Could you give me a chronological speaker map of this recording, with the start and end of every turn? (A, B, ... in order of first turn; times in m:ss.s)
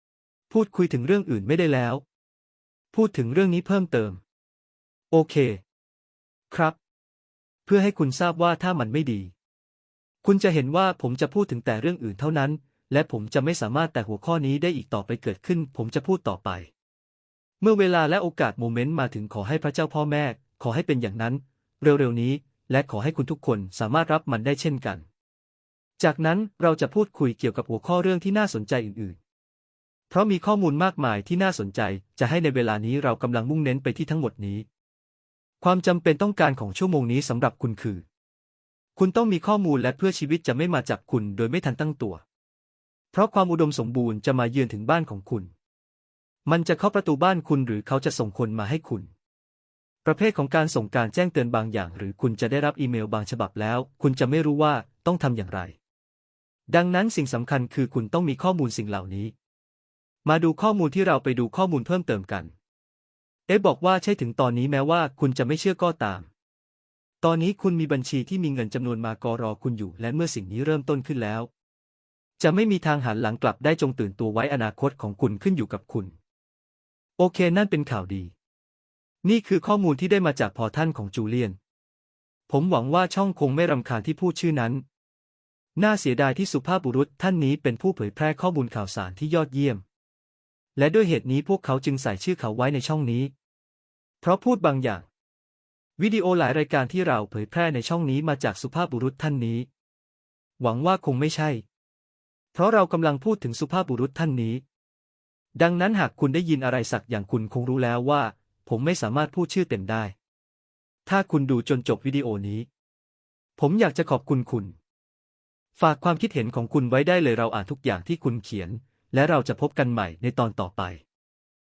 0:00.5-0:02.0 A
0:02.9-0:04.2 A
0:05.1-0:05.6 A
0:06.5-0:06.8 A
0:07.6-0:09.3 A
0:10.2-0:16.7 A
0:17.6-0:25.0 A
0:26.0-0:29.2 A
0:30.1-0:34.6 A
0:35.6-0:38.0 A
0:39.0-0:42.2 A
0:43.1-0:45.5 A
0:46.4-0:49.1 A
0:50.0-0:55.8 A
0:56.7-0:59.3 A
1:00.2-1:02.5 A
1:03.5-1:06.3 A
1:07.2-1:11.5 A
1:12.4-1:16.1 A
1:17.2-1:18.3 A
1:19.2-1:21.6 A
1:22.5-1:24.8 A
1:25.8-1:29.8 A
1:30.8-1:33.3 A
1:34.2-1:35.0 A
1:36.0-1:39.7 A
1:40.6-1:41.6 A
1:42.5-1:44.6 A
1:45.6-1:50.1 A
1:51.0-1:52.7 A
1:53.6-1:54.7 A
1:55.8-2:01.0 A